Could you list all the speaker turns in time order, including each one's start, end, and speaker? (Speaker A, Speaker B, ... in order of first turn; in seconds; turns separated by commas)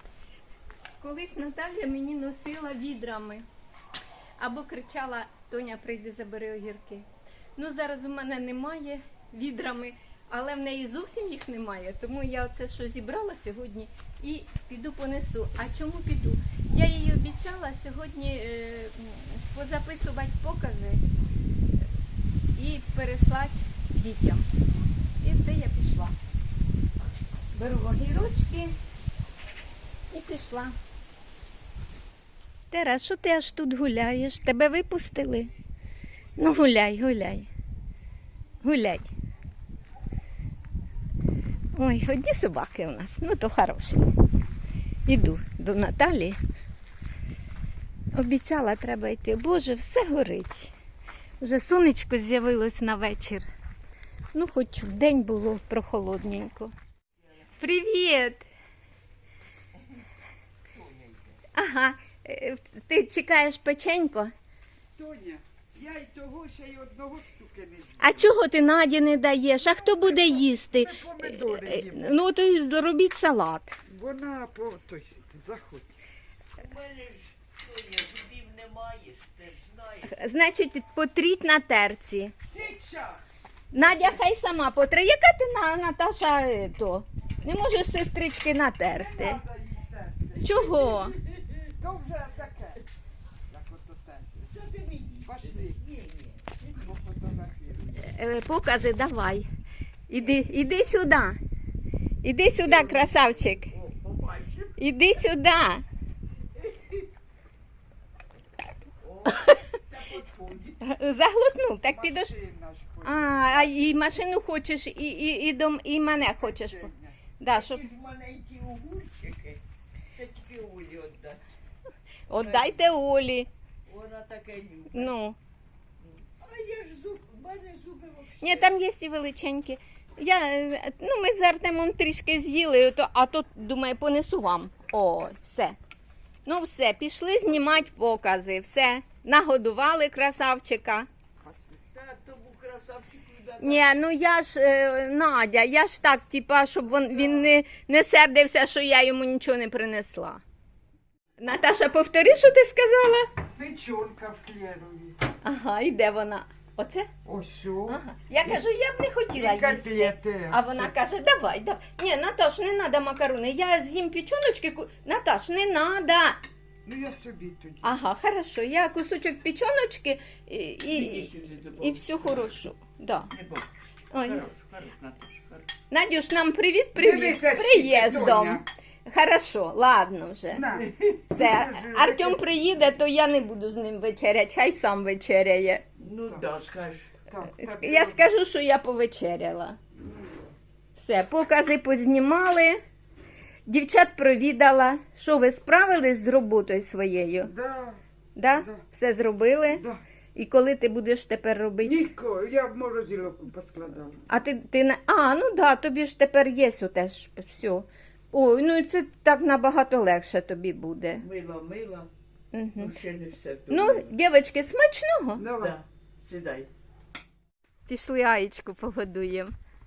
Speaker A: 1.0-3.4, Speaker A: 4.4-21.0, Speaker A: 22.5-24.4, Speaker A: 25.2-26.1, Speaker A: 27.5-28.7, Speaker A: 30.1-30.8, Speaker A: 32.7-35.5, Speaker A: 36.4-37.5, Speaker A: 38.6-39.1, Speaker A: 41.7-44.0, Speaker A: 45.0-46.4, Speaker A: 48.1-50.7, Speaker A: 51.4-53.5, Speaker A: 54.3-56.7, Speaker A: 57.4-58.5, Speaker B: 60.7-61.4, Speaker A: 61.5-64.3, Speaker C: 65.0-68.3, Speaker A: 68.0-73.8, Speaker C: 69.6-72.2, Speaker C: 73.9-76.0, Speaker B: 76.6-80.2, Speaker A: 80.1-82.3, Speaker C: 82.4-84.0, Speaker A: 83.7-89.4, Speaker C: 88.9-91.0, Speaker A: 90.4-91.2, Speaker C: 91.8-92.8, Speaker C: 93.5-94.5, Speaker B: 94.5-96.7, Speaker C: 95.2-95.8, Speaker C: 96.6-98.1, Speaker A: 98.0-99.5, Speaker A: 100.1-101.4, Speaker A: 102.2-103.7, Speaker B: 102.6-104.8, Speaker A: 104.8-105.8, Speaker B: 106.5-107.0, Speaker B: 109.0-111.0, Speaker A: 109.3-109.7, Speaker A: 110.8-112.3, Speaker C: 111.9-113.9, Speaker A: 113.0-117.8, Speaker C: 116.3-117.2, Speaker B: 117.5-119.6, Speaker B: 120.1-121.5, Speaker A: 122.3-123.5, Speaker B: 122.3-122.8, Speaker B: 123.8-125.1, Speaker A: 124.9-125.4, Speaker B: 126.0-128.7, Speaker A: 128.4-135.8, Speaker A: 136.4-141.1, Speaker B: 141.7-143.9, Speaker A: 143.6-150.4, Speaker A: 151.4-153.3, Speaker C: 153.5-155.2, Speaker A: 155.4-157.1, Speaker C: 157.2-158.6, Speaker A: 157.8-166.4, Speaker C: 159.3-160.9, Speaker C: 166.8-168.0, Speaker A: 167.8-173.3, Speaker B: 170.9-172.4, Speaker B: 173.3-173.7, Speaker A: 174.1-174.5, Speaker B: 174.2-175.7, Speaker A: 175.9-180.8, Speaker C: 176.9-178.6, Speaker C: 180.5-182.5, Speaker A: 181.3-185.8, Speaker B: 186.0-187.2, Speaker C: 186.2-188.3, Speaker A: 187.5-189.8, Speaker C: 189.9-190.5, Speaker A: 190.9-192.8, Speaker A: 193.7-197.5, Speaker C: 197.4-198.0, Speaker A: 198.3-199.8, Speaker C: 198.5-198.8, Speaker C: 199.7-200.0, Speaker A: 200.3-202.0, Speaker C: 201.8-204.2, Speaker A: 204.3-211.2, Speaker B: 211.2-212.1, Speaker A: 212.5-212.9, Speaker B: 212.8-214.1, Speaker A: 213.7-215.4, Speaker C: 215.3-215.8, Speaker B: 215.5-216.7, Speaker A: 217.9-219.5